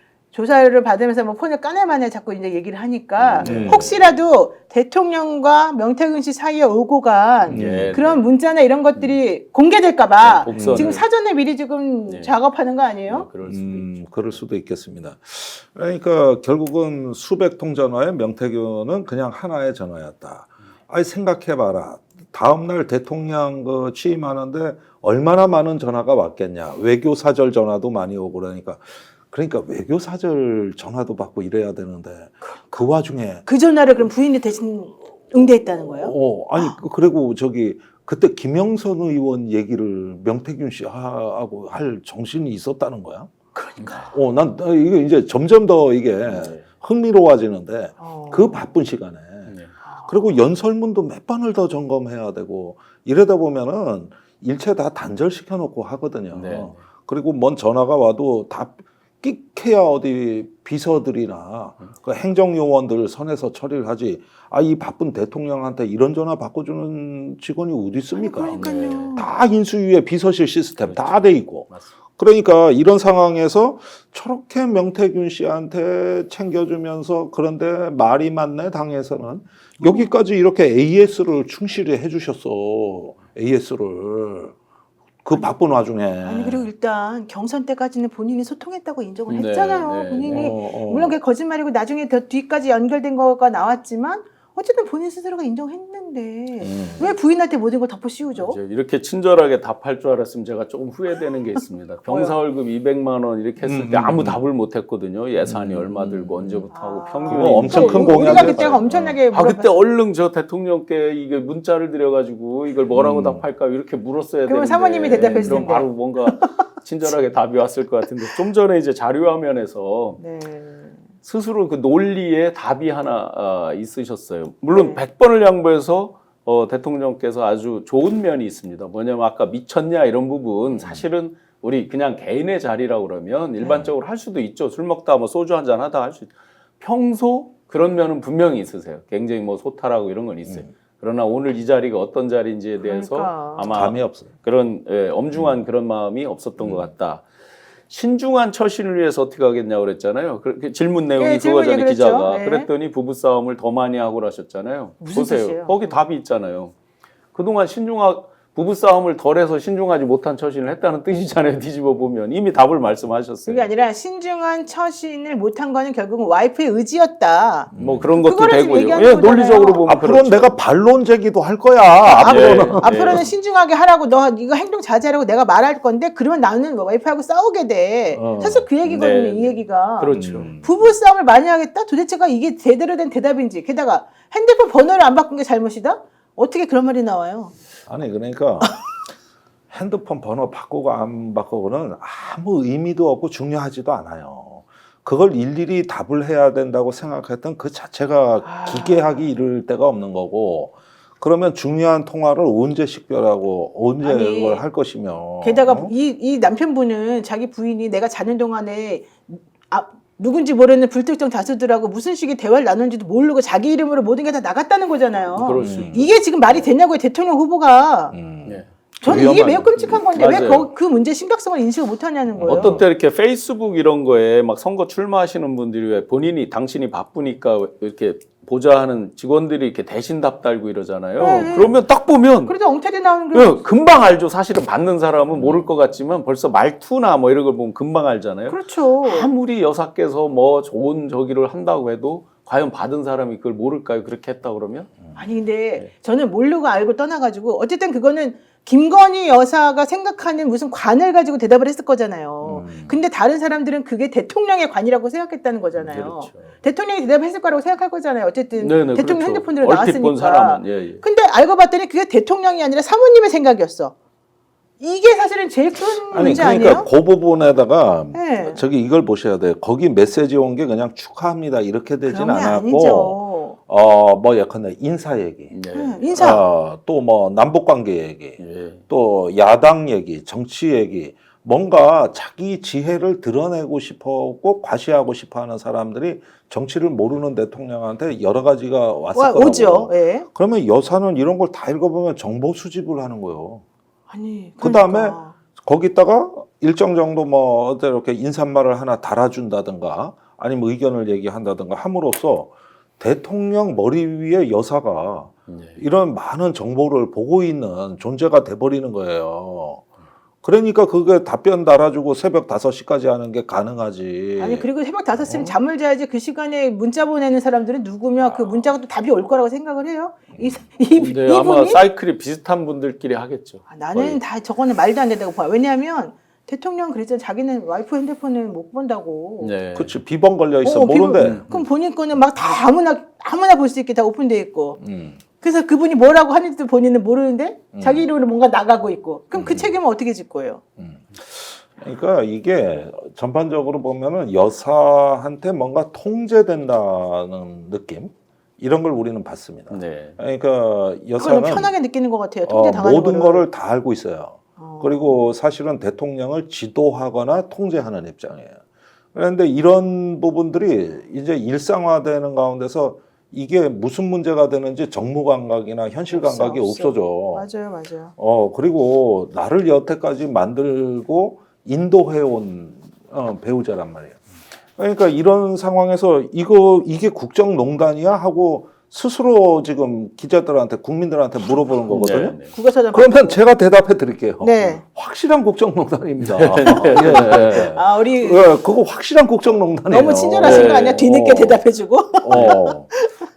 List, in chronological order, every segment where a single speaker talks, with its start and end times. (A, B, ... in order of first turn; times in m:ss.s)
0:00.3-0:13.3 A
0:03.2-0:03.9 B
0:03.4-0:03.9 C
0:07.5-0:08.3 B
0:07.5-0:08.0 C
0:08.9-0:09.2 B
0:10.2-0:11.0 B
0:10.5-0:10.9 C
0:12.1-0:12.3 B
0:13.1-0:14.4 B
0:13.4-0:33.4 C
0:33.4-0:36.7 A
0:35.6-0:43.3 C
0:43.5-0:44.1 A
0:44.1-1:24.5 C
0:46.2-0:46.6 B
0:48.0-0:48.7 A
0:56.3-0:56.8 B
1:08.1-1:09.3 A
1:08.5-1:09.1 B
1:10.8-1:11.9 B
1:19.8-1:20.1 A
1:25.2-1:26.7 C
1:26.2-1:38.6 A
1:29.3-1:30.5 B
1:30.2-1:31.1 C
1:36.6-1:37.1 C
1:38.4-2:00.2 B
1:43.6-1:44.4 C
1:45.4-1:46.6 C
1:46.7-1:49.9 A
1:47.3-1:49.2 C
1:52.9-1:53.4 C
1:54.5-1:56.5 A
1:55.4-1:55.6 C
2:00.2-2:01.0 A
2:01.2-2:27.2 B
2:04.7-2:05.0 A
2:10.8-2:11.0 C
2:22.8-2:23.7 A
2:23.6-2:24.3 C
2:26.6-2:26.9 C
2:27.9-2:36.7 B
2:31.2-2:32.7 A
2:35.0-2:35.9 A
2:37.3-2:43.7 B
2:43.5-2:49.8 A
2:47.7-2:48.1 C
2:47.8-2:50.6 B
2:49.8-2:53.3 C
2:52.0-2:53.2 B
2:52.1-3:07.5 A
2:58.1-2:58.7 C
2:58.8-3:00.5 B
3:00.1-3:00.9 C
3:07.9-3:08.8 C
3:09.7-3:25.9 C
3:18.4-3:19.2 A
3:24.0-3:24.6 A
3:25.4-3:38.1 A
3:35.4-3:36.6 B
3:35.6-3:36.1 C
3:38.1-3:40.0 C
3:38.4-3:40.7 B
3:39.0-3:42.8 A
3:42.3-3:42.8 C
3:42.4-3:52.5 B
3:51.2-3:51.8 A
3:51.2-3:51.7 C
3:52.5-3:53.6 A
3:53.3-4:04.9 B
3:55.4-3:55.7 C
3:58.5-3:59.3 A
4:05.1-4:23.9 A
4:12.4-4:13.0 C
4:15.7-4:16.5 B
4:18.6-4:21.0 B
4:24.8-4:26.9 A
4:26.1-4:35.5 C
4:28.1-4:28.6 A
4:32.1-4:33.6 A
4:35.5-4:36.4 B
4:35.7-4:36.5 A
4:36.2-4:53.6 C
4:38.4-4:38.8 B
4:49.1-4:50.2 A
4:54.1-4:55.4 A
4:54.6-5:09.8 C
5:05.5-5:05.8 B
5:10.4-5:14.7 C
5:14.4-5:21.8 A
5:15.2-5:15.5 C
5:20.3-5:20.6 C
5:21.0-5:24.2 B
5:23.7-5:29.5 A
5:29.4-5:29.9 B
5:29.7-5:31.5 C
5:30.6-5:34.8 A
5:31.2-5:31.6 B
5:34.8-5:35.2 C
5:35.4-5:40.6 A
5:37.7-5:38.1 C
5:39.3-5:39.7 C
5:40.8-5:51.7 C
5:49.7-5:50.2 B
5:51.2-5:53.4 A
5:52.5-5:58.6 C
5:54.6-5:55.2 A
5:59.1-6:07.5 C
6:06.1-6:08.1 A
6:08.2-6:14.2 C
6:14.8-6:22.4 C
6:21.9-6:22.5 B
6:22.5-6:23.4 A
6:22.9-6:31.6 C
6:24.4-6:24.8 A
6:26.2-6:27.7 B
6:27.7-6:28.6 A
6:29.9-6:33.2 A
6:30.4-6:31.0 B
6:32.2-6:32.9 C